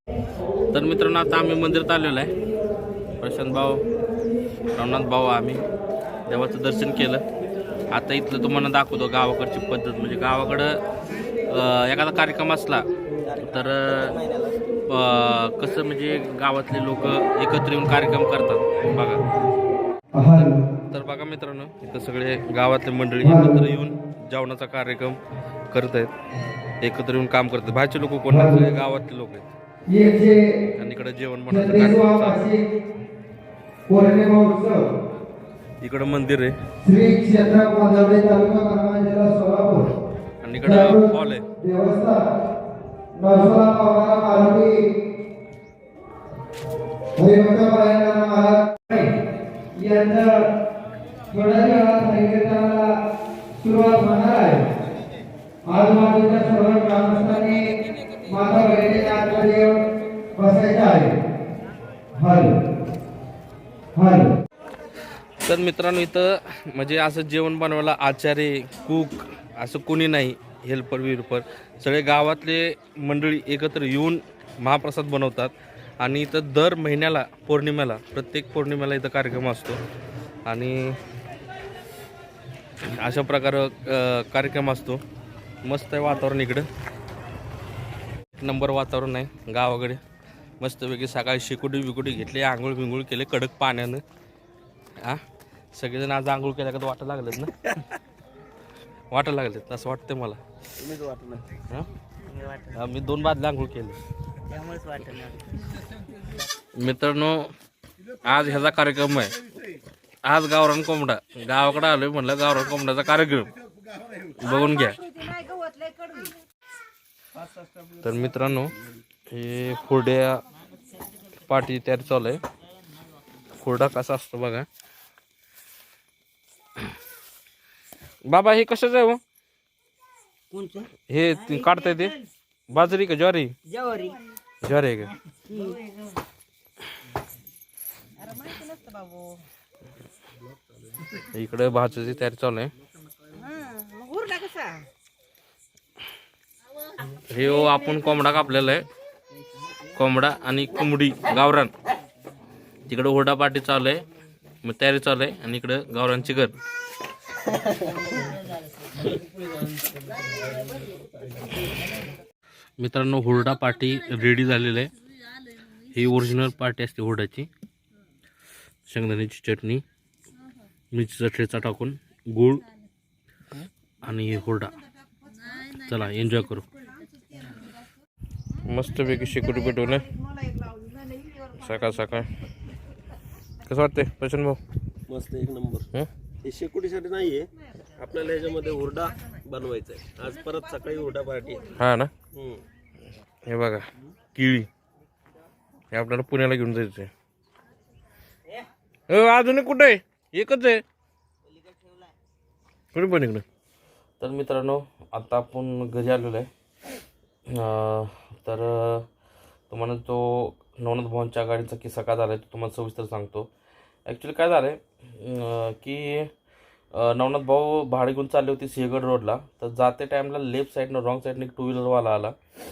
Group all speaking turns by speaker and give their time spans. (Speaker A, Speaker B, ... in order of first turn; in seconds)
Speaker A: 0.7-2.3, 3.2-3.8, 4.7-5.6, 6.3-7.2, 7.9-10.8, 11.5-14.2, 14.9-19.2, 20.4-25.2, 25.7-26.1, 26.8-29.5, 30.8-32.4, 35.8-36.6, 40.4-41.5, 65.4-79.8, 80.5-81.0, 82.8-85.0, 85.6-86.7, 88.4-90.0, 90.6-94.0, 95.7-97.8, 99.1-100.4, 102.7-104.0, 106.8-107.5, 108.2-109.3, 110.2-113.5, 114.4-115.4, 118.0-118.7, 119.3-120.4, 121.5-122.4, 123.5-124.7, 128.3-129.2, 131.1-132.2, 132.7-133.5, 134.6-135.1, 141.2-142.7, 147.1-148.9, 149.9-151.7, 152.9-154.0, 154.6-156.6, 162.8-164.9, 165.8-167.5, 168.9-169.8, 170.9-172.7, 174.0-174.8, 175.4-176.7, 178.7-180.1, 181.5-182.3, 183.7-184.6, 191.7-192.1, 193.5-194.7, 195.9-197.1, 199.1-200.8, 202.9-203.4, 204.2-206.5, 207.5-209.1, 209.7-213.5, 214.1-216.3, 216.9-222.4
Speaker B: 14.1-14.5, 100.8-101.5, 185.1-185.9, 186.4-191.8, 192.3-192.6
Speaker C: 20.2-20.6, 23.2-23.5, 29.9-30.6, 31.5-32.6, 33.9-34.9, 36.8-39.9, 40.6-42.3, 43.2-44.8, 47.2-49.1, 49.8-50.5, 51.3-52.9, 53.6-54.7, 55.7-59.8, 60.4-61.1, 62.2-62.5, 64.0-64.3, 143.6-144.8
Speaker D: 104.5-105.4, 115.5-116.3, 130.6-130.8, 133.8-134.2, 138.4-139.3, 143.6-144.1